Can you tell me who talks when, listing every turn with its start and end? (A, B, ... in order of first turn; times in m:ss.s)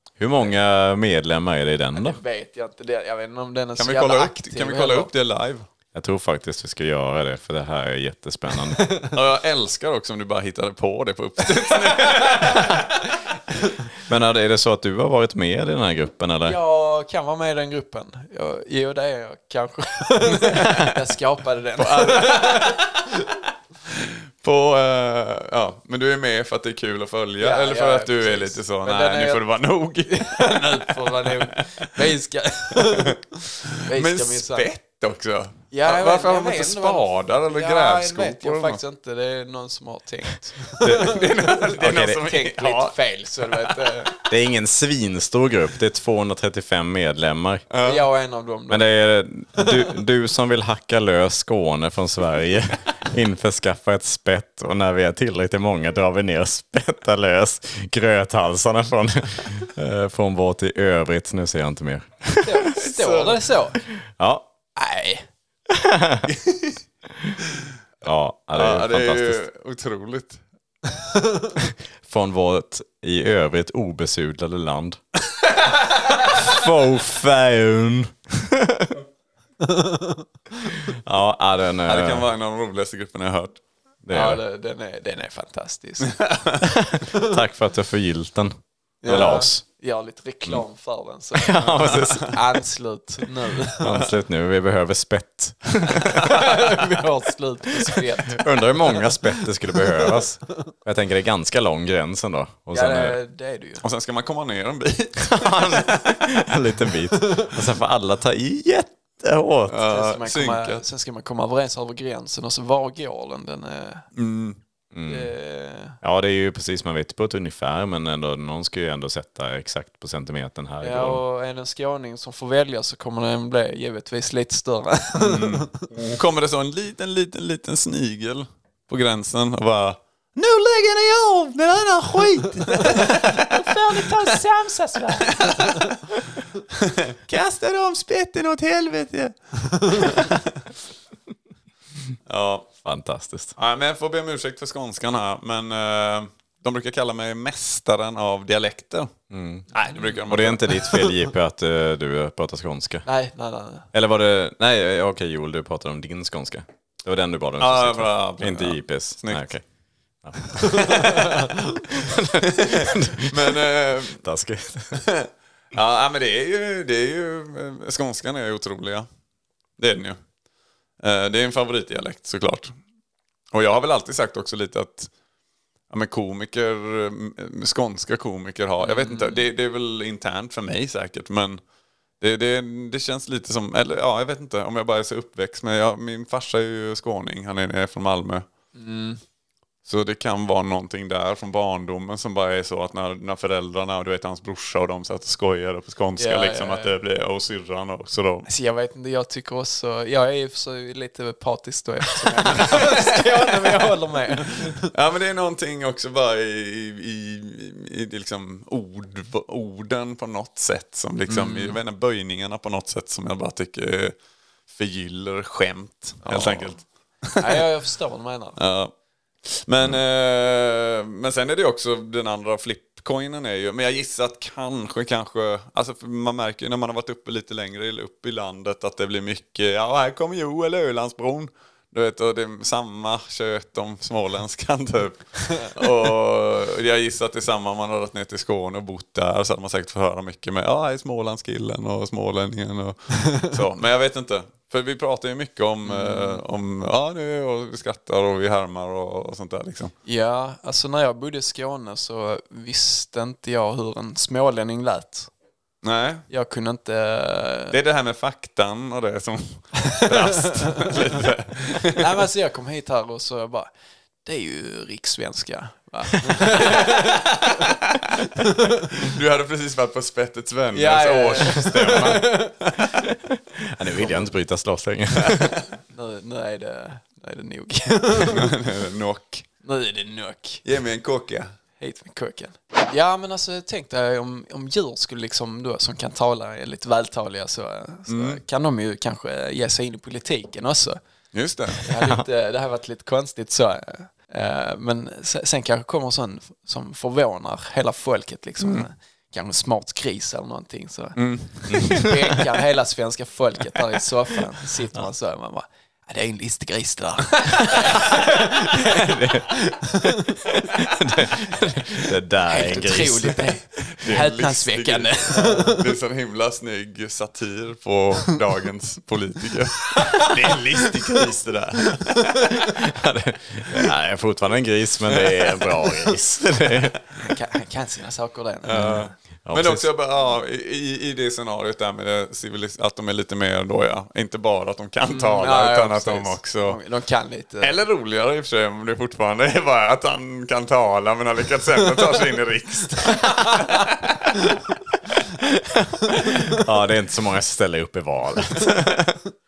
0:00.2-0:02.2 A
0:02.0-0:05.1 B
0:03.8-0:05.7 C
0:05.9-0:08.8 A
0:09.1-0:13.1 C
0:14.0-0:16.6 A
0:16.4-0:22.8 B
0:20.5-0:20.8 C
0:21.8-0:23.1 C
0:23.9-0:31.6 C
0:27.4-0:29.4 B
0:30.0-0:33.2 B
0:32.8-0:33.1 C
0:33.6-0:38.8 C
0:33.8-0:34.7 B
0:35.7-0:41.2 B
0:40.8-0:43.0 C
0:40.8-0:41.2 A
0:41.8-0:42.2 A
0:41.9-0:44.1 B
0:43.5-0:43.9 C
0:44.3-0:47.6 A
0:47.7-0:48.1 C
0:47.8-0:48.9 B
0:48.7-1:02.7 A
1:02.4-1:03.8 B
1:02.8-1:03.4 C
1:04.0-1:04.5 A
1:04.8-1:05.3 B
1:05.7-1:06.3 A
1:06.4-1:06.8 C
1:08.0-1:09.4 A
1:08.5-1:10.4 C
1:11.6-1:15.0 A
1:16.2-1:19.0 A
1:19.7-1:20.2 B
1:20.8-1:22.3 A
1:21.8-1:23.6 C
1:24.0-1:24.4 A
1:24.1-1:26.2 B
1:26.2-1:26.6 C
1:26.6-1:29.6 A
1:29.0-1:34.0 B
1:29.1-1:29.4 C
1:31.3-1:32.4 A
1:31.8-1:32.2 C
1:33.8-1:36.6 A
1:36.1-1:39.1 B
1:38.3-1:43.2 A
1:42.7-1:43.8 B
1:43.8-1:46.0 C
1:45.2-1:49.8 A
1:49.7-1:50.8 C
1:49.9-1:54.1 B
1:54.2-1:54.6 C
1:54.9-1:55.3 A
1:55.1-1:56.0 B
1:56.0-2:01.2 A
2:00.8-2:05.8 B
2:05.2-2:14.4 C
2:12.7-2:15.9 B
2:15.3-2:15.9 C
2:16.7-2:20.4 C
2:22.3-2:22.7 C
2:22.8-2:23.6 A
2:23.6-2:29.1 C
2:29.3-2:29.7 A
2:29.7-2:30.9 C
2:30.2-2:33.1 A
2:33.0-2:33.9 B
2:33.9-2:39.6 A
2:37.6-2:39.5 C
2:40.2-2:45.0 A
2:40.8-2:41.1 C
2:42.6-2:44.2 C
2:45.0-2:49.1 C
2:49.8-2:50.2 C
2:51.0-2:52.7 C
2:53.5-2:55.1 C
2:55.9-3:01.6 C
2:58.8-2:59.4 B
3:02.2-3:08.5 C
3:08.8-3:09.2 B
3:09.9-3:18.5 C
3:16.2-3:16.9 B
3:18.5-3:24.9 B
3:22.6-3:23.0 C
3:24.7-3:34.2 C
3:31.3-3:31.8 B
3:34.7-3:37.6 C
3:36.2-3:36.8 B
3:37.4-3:38.6 B
3:38.6-3:38.9 C
3:39.5-4:09.9 C
4:05.8-4:06.4 B
4:10.0-4:15.3 B
4:15.8-4:16.3 C
4:16.3-4:17.8 B
4:17.7-4:22.2 C
4:20.0-4:20.7 B
4:21.8-4:23.7 B
4:24.2-4:27.6 B
4:28.4-4:28.8 B
4:28.9-4:33.0 C
4:30.7-4:32.5 B
4:33.0-4:35.6 A
4:35.9-4:38.6 B
4:38.3-4:39.4 C
4:39.6-4:40.6 B
4:40.6-4:41.5 C
4:41.8-4:51.0 B
4:48.1-4:48.4 C
4:51.3-4:51.8 C
4:51.8-5:10.5 B
4:58.6-4:58.9 C
5:01.2-5:02.1 C
5:08.1-5:13.5 A
5:12.4-5:15.8 B
5:13.9-5:22.6 C
5:22.6-5:27.0 A
5:27.2-5:29.1 B
5:28.7-5:36.8 C
5:28.7-5:29.8 A
5:35.1-5:37.8 B
5:37.6-5:44.5 C
5:45.4-5:49.2 A